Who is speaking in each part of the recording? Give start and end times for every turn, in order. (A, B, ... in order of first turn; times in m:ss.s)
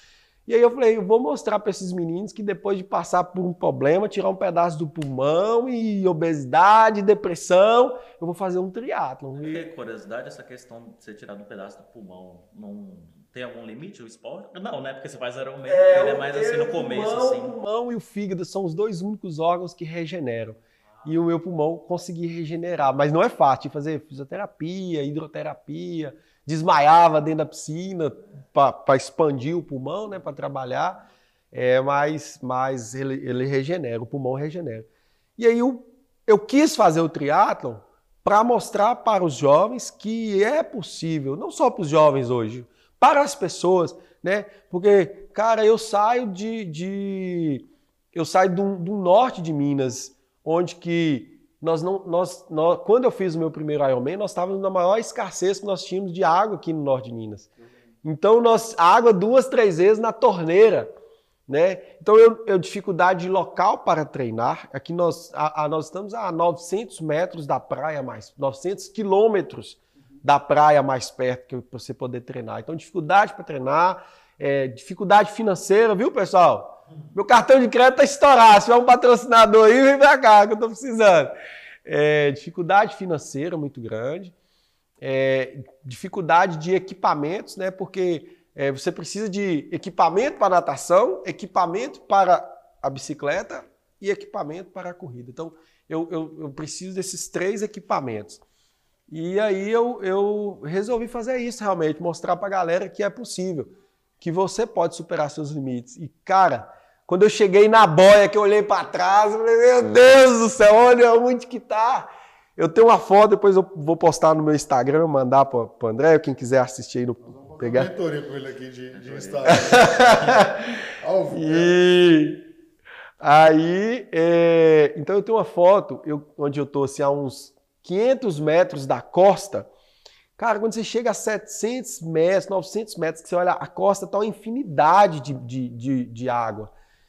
0:00.5-0:09.6 A
0:09.4-0:17.5 B
0:15.6-0:31.0 A
0:31.5-0:57.5 A
0:58.0-1:00.9 A
1:01.5-1:21.3 A
1:21.8-1:24.3 A
1:25.0-1:38.4 A
1:39.1-1:57.9 A
1:57.2-2:01.8 C
1:58.9-1:59.9 B
1:59.5-2:00.6 A
2:01.3-2:02.4 A
2:03.2-2:09.7 A
2:10.4-2:16.7 A